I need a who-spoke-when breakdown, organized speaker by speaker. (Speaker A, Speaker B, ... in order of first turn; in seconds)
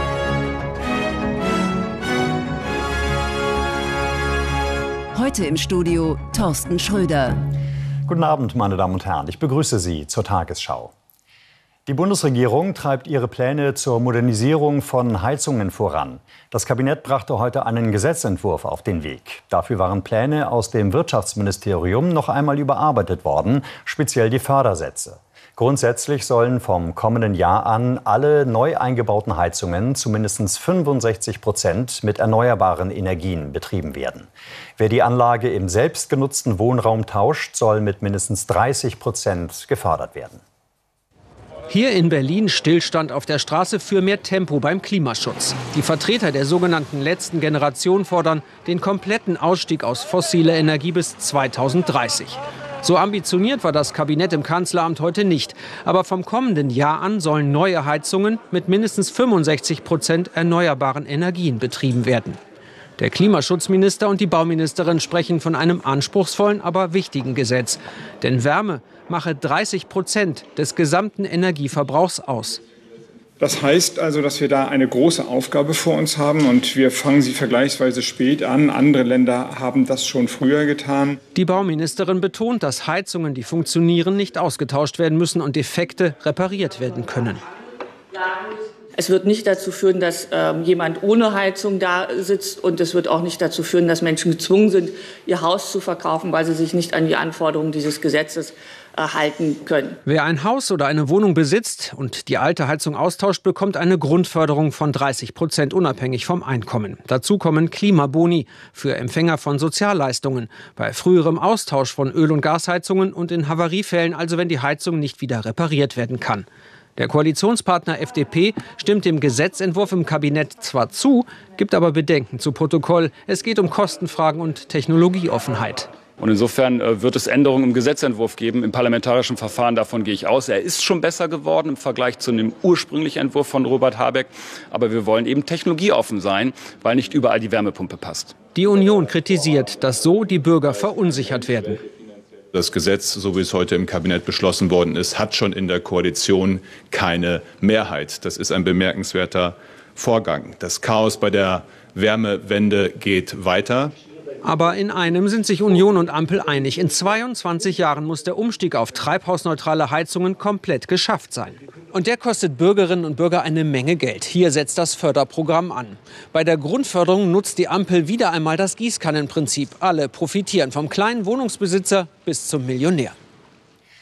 Speaker A: 5.2-7.3
Speaker B: 8.1-10.9, 11.9-40.4
Speaker C: 41.7-62.4, 63.0-72.6, 81.3-87.4, 100.0-116.5, 117.0-125.9, 138.5-141.8, 154.4-173.2
Speaker D: 73.4-81.2
Speaker E: 89.0-100.0
Speaker F: 126.2-138.3
Speaker G: 142.6-153.9